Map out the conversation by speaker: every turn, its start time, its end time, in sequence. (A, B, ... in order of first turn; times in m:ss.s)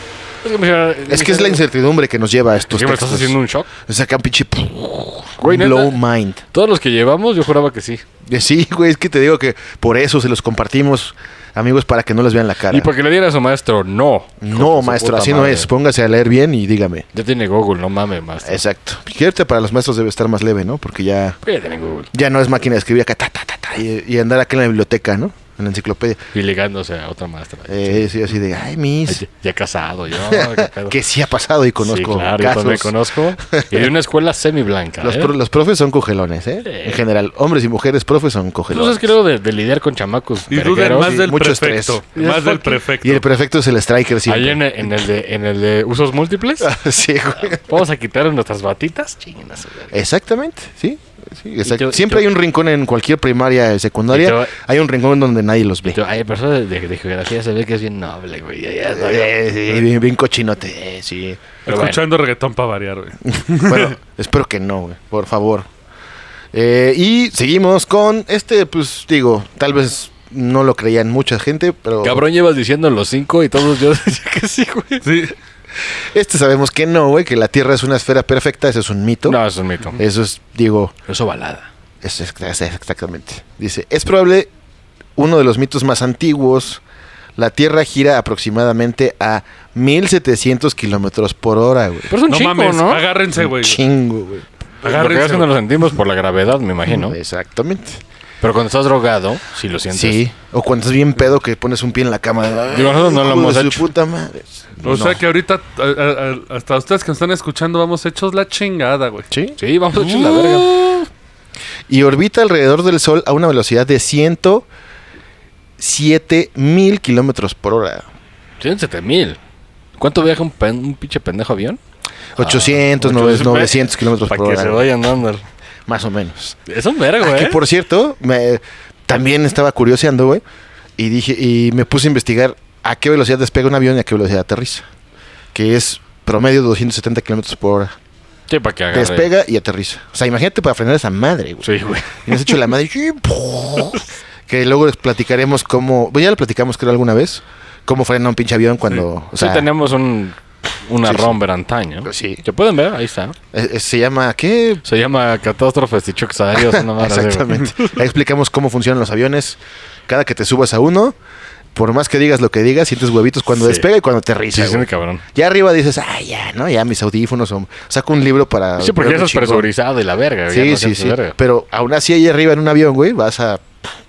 0:00.4-0:01.6 A
0:01.1-0:06.4 B
0:02.7-0:03.7 A
0:05.4-0:06.0 A
0:06.5-0:08.0 A
0:08.2-0:12.9 B
0:12.7-0:15.7 A
0:14.4-0:17.1 B
0:17.1-0:18.6 A
0:18.4-0:21.4 B
0:21.4-0:22.1 A
0:22.1-0:26.2 B
0:26.3-0:28.1 A
0:27.7-0:29.2 B
0:29.1-0:31.0 A
0:30.2-0:33.9 B
0:31.8-0:35.3 A
0:35.0-0:39.1 B
0:36.6-0:37.0 A
0:38.7-0:41.2 A
0:40.5-0:43.2 C
0:41.0-0:42.0 B
0:42.2-0:42.8 A
0:43.0-0:44.9 B
0:44.2-0:46.7 A
0:46.6-0:47.8 B
0:47.5-0:50.0 A
0:49.9-0:56.0 B
0:51.6-0:52.3 A
0:54.1-0:54.5 A
0:55.9-0:59.3 A
0:58.9-1:01.5 B
1:01.6-1:03.9 C
1:01.7-1:02.0 A
1:03.5-1:05.6 B
1:06.5-1:12.2 B
1:12.0-1:15.1 A
1:15.0-1:15.3 C
1:15.9-1:19.4 B
1:19.3-1:20.0 A
1:20.0-1:20.9 B
1:21.1-1:21.7 A
1:22.0-1:24.5 B
1:25.2-1:26.8 B
1:27.4-1:32.1 B
1:32.1-1:33.0 A
1:32.3-1:33.8 C
1:33.4-1:34.4 B
1:34.8-1:35.5 C
1:34.8-1:37.2 A
1:36.9-1:38.0 B
1:38.4-1:40.2 A
1:39.9-1:45.2 B
1:42.7-1:43.9 A
1:44.8-1:49.3 C
1:49.3-1:50.6 B
1:49.6-1:51.0 A
1:51.9-1:54.7 B
1:55.8-1:58.0 B
1:58.6-1:59.4 A
2:00.0-2:01.8 A
2:02.4-2:04.8 B
2:02.4-2:05.4 A
2:05.9-2:06.6 B
2:06.7-2:07.6 A
2:07.2-2:10.4 B
2:11.0-2:14.8 B
2:15.5-2:17.9 B
2:18.5-2:19.3 A
2:18.9-2:29.7 B
2:21.6-2:22.6 A
2:29.3-2:33.4 A
2:31.0-2:31.4 B
2:32.0-2:32.4 B
2:33.5-2:34.8 B
2:34.8-2:38.0 A
2:36.5-2:41.1 B
2:41.7-2:49.7 B
2:43.5-2:43.8 A
2:44.5-2:45.2 A
2:48.8-2:51.4 A
2:50.5-2:53.6 B